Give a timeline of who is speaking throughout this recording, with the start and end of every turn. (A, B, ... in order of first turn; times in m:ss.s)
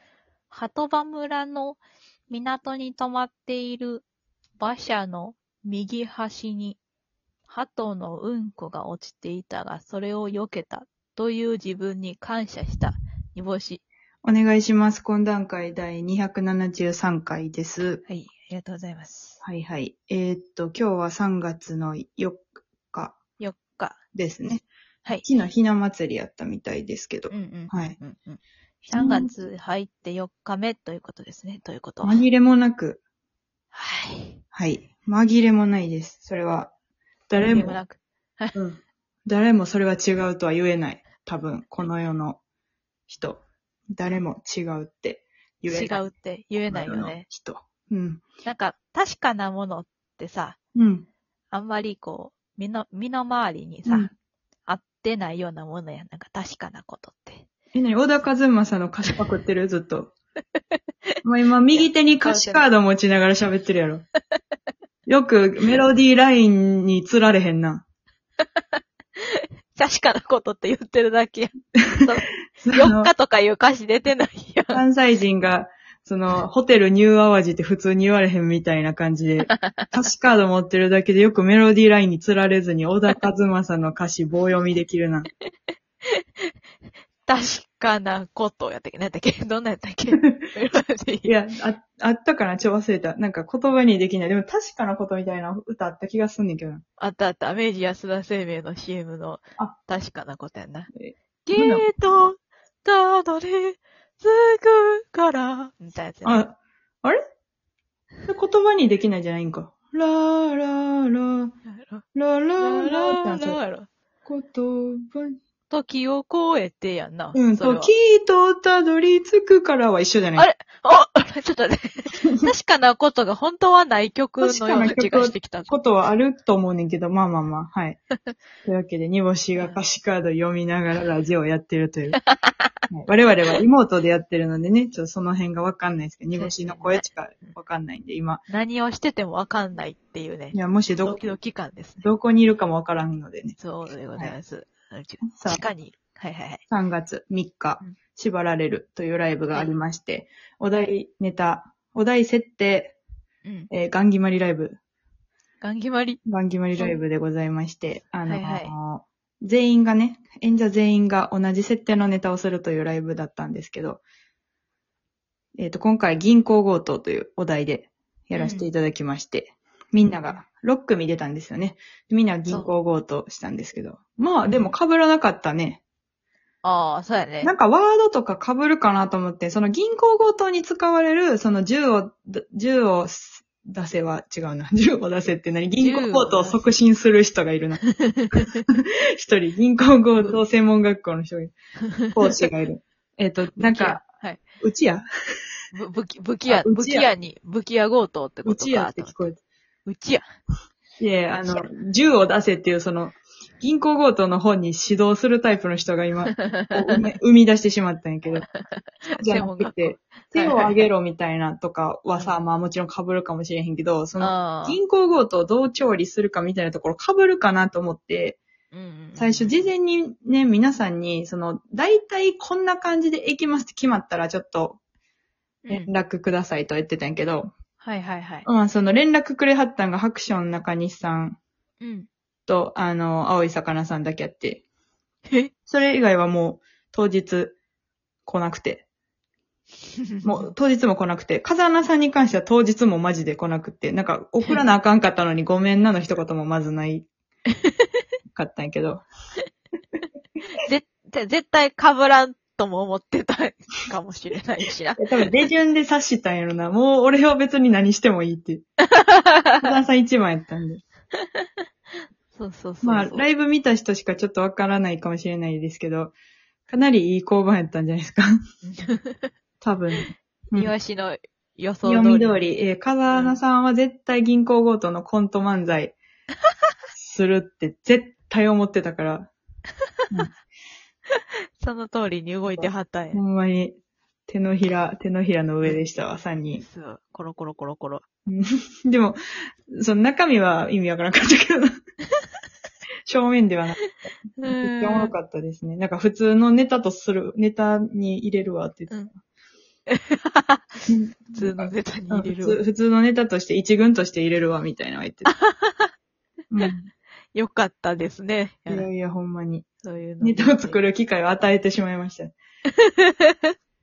0:00.5-0:04.0 A
0:04.6-0:06.8 A
0:07.5-0:13.8 A
0:14.2-0:18.0 B
0:18.1-0:19.4 A
0:19.4-0:23.2 B
0:23.4-0:24.0 A
0:24.2-0:24.7 B
0:25.2-0:28.0 B
0:27.3-0:32.2 A
0:28.9-0:29.3 B
0:32.0-0:33.0 B
0:33.7-0:34.4 A
0:34.5-0:36.7 B
0:37.3-0:37.8 B
0:37.4-0:38.6 A
0:38.5-0:42.4 B
0:43.1-0:43.4 B
0:44.0-0:46.0 B
0:45.7-0:47.3 A
0:46.7-0:48.2 B
0:48.4-0:50.6 A
0:50.8-0:51.1 B
0:51.5-0:54.1 A
0:54.7-0:57.5 A
0:57.7-1:00.1 B
1:01.2-1:04.0 B
1:01.8-1:02.6 A
1:05.1-1:07.8 B
1:09.2-1:14.8 A
1:12.6-1:13.1 B
1:14.7-1:25.3 B
1:19.4-1:20.0 A
1:26.2-1:26.5 A
1:27.3-1:31.3 A
1:31.2-1:36.8 B
1:37.0-1:40.9 A
1:41.0-1:42.3 B
1:41.5-1:46.4 A
1:46.2-1:47.2 B
1:48.3-1:51.5 B
1:51.7-1:52.0 A
1:52.2-1:53.6 B
1:52.6-1:53.9 A
1:54.2-1:55.4 B
1:55.7-1:57.9 A
1:57.4-2:00.5 B
2:00.4-2:05.7 A
2:04.4-2:08.0 B
2:08.6-2:12.2 B
2:12.3-2:12.7 A
2:12.9-2:18.4 B
2:16.4-2:17.0 A
2:18.5-2:22.1 A
2:20.5-2:21.3 B
2:22.0-2:23.6 B
2:23.6-2:26.6 A
2:25.3-2:25.6 B
2:26.7-2:33.0 B
2:33.4-2:33.7 A
2:33.7-2:34.8 B
2:35.6-2:36.2 A
2:36.3-2:44.0 B
2:38.2-2:38.8 A
2:45.6-2:55.8 B
2:48.4-2:48.7 A
2:52.5-2:52.7 A
2:54.5-2:54.8 A
2:56.6-2:57.5 A
2:57.4-3:07.8 B
3:05.8-3:06.6 A
3:08.0-3:08.6 A
3:08.4-3:11.5 B
3:12.1-3:14.0 B
3:13.6-3:14.4 A
3:14.6-3:15.1 B
3:15.7-3:19.3 A
3:16.5-3:17.1 B
3:18.4-3:19.4 B
3:19.9-3:20.2 A
3:21.0-3:28.5 B
3:26.3-3:27.0 A
3:28.4-3:30.8 A
3:29.1-3:38.4 B
3:34.2-3:34.8 A
3:38.7-3:39.5 A
3:39.2-3:44.8 B
3:45.6-3:45.9 A
3:45.7-3:47.5 B
3:47.8-3:48.5 A
3:48.5-3:51.4 B
3:51.8-3:52.1 A
3:52.5-3:54.6 B
3:55.7-3:57.6 B
3:58.2-3:58.8 B
4:00.0-4:00.4 A
4:00.2-4:07.1 B
4:08.3-4:09.0 B
4:10.6-4:15.1 A
4:15.0-4:18.6 B
4:18.8-4:19.8 A
4:19.6-4:20.8 B
4:21.2-4:21.5 A
4:22.4-4:23.2 A
4:22.8-4:26.1 B
4:26.7-4:28.3 B
4:28.7-4:29.3 A
4:29.6-4:30.7 B
4:30.5-4:32.4 A
4:31.8-4:36.0 B
4:33.1-4:33.4 A
4:36.9-4:39.3 B
4:41.2-4:43.2 A
4:42.6-4:46.6 B
4:46.6-4:48.0 A
4:48.3-4:49.2 B
4:49.7-4:51.7 B
4:53.1-4:53.8 B
4:54.4-4:59.0 B
4:54.4-4:55.1 A
4:59.9-5:00.8 A
5:00.9-5:05.3 B
5:01.3-5:02.6 A
5:05.3-5:05.9 A
5:06.5-5:06.9 B
5:07.3-5:08.9 A
5:08.7-5:09.7 B
5:09.8-5:10.8 A
5:10.2-5:12.3 B
5:12.8-5:13.5 A